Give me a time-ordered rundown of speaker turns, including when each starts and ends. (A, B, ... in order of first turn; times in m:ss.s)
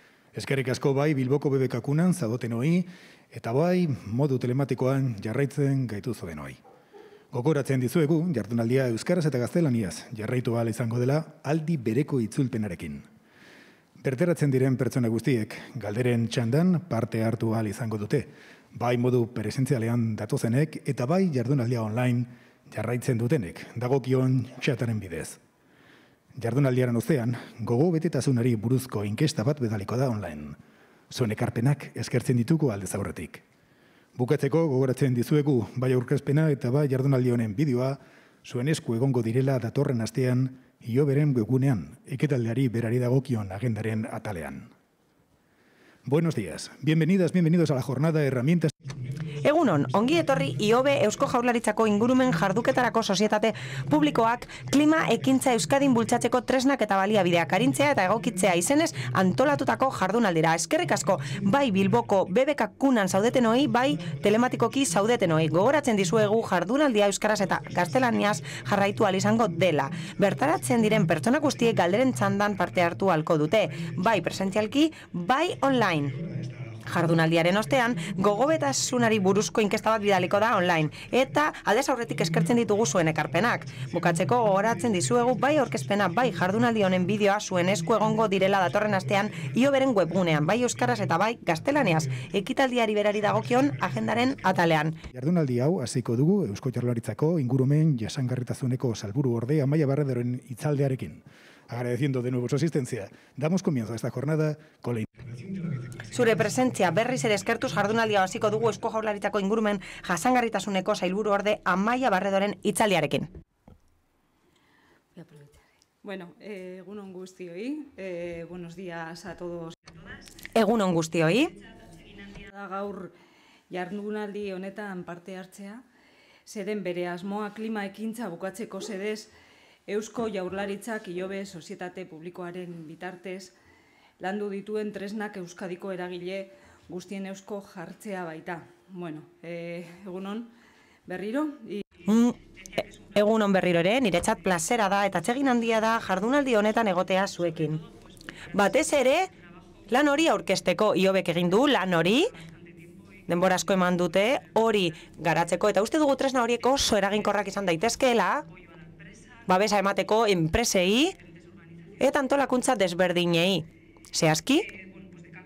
0:00.3-0:06.6 A
0:07.3-0:13.1 A
0:14.0-0:25.4 A
0:26.4-0:30.6 A
0:31.1-0:33.4 A
0:34.2-0:44.7 A
0:46.0-0:48.7 A
0:49.4-1:16.2 B
1:16.8-1:35.0 B
1:35.1-1:45.3 A
1:46.1-1:53.3 B
1:56.0-1:59.8 C
2:00.6-2:01.6 B
2:02.4-2:03.1 C
2:03.7-2:05.8 C
2:06.5-2:09.3 C
2:09.9-2:13.5 C
2:14.2-2:20.5 C
2:21.1-2:21.8 C
2:22.1-2:27.8 B
2:28.5-2:29.3 B
2:29.9-2:32.3 B
2:33.3-2:38.5 B
2:39.5-2:41.2 B
2:42.0-2:44.8 B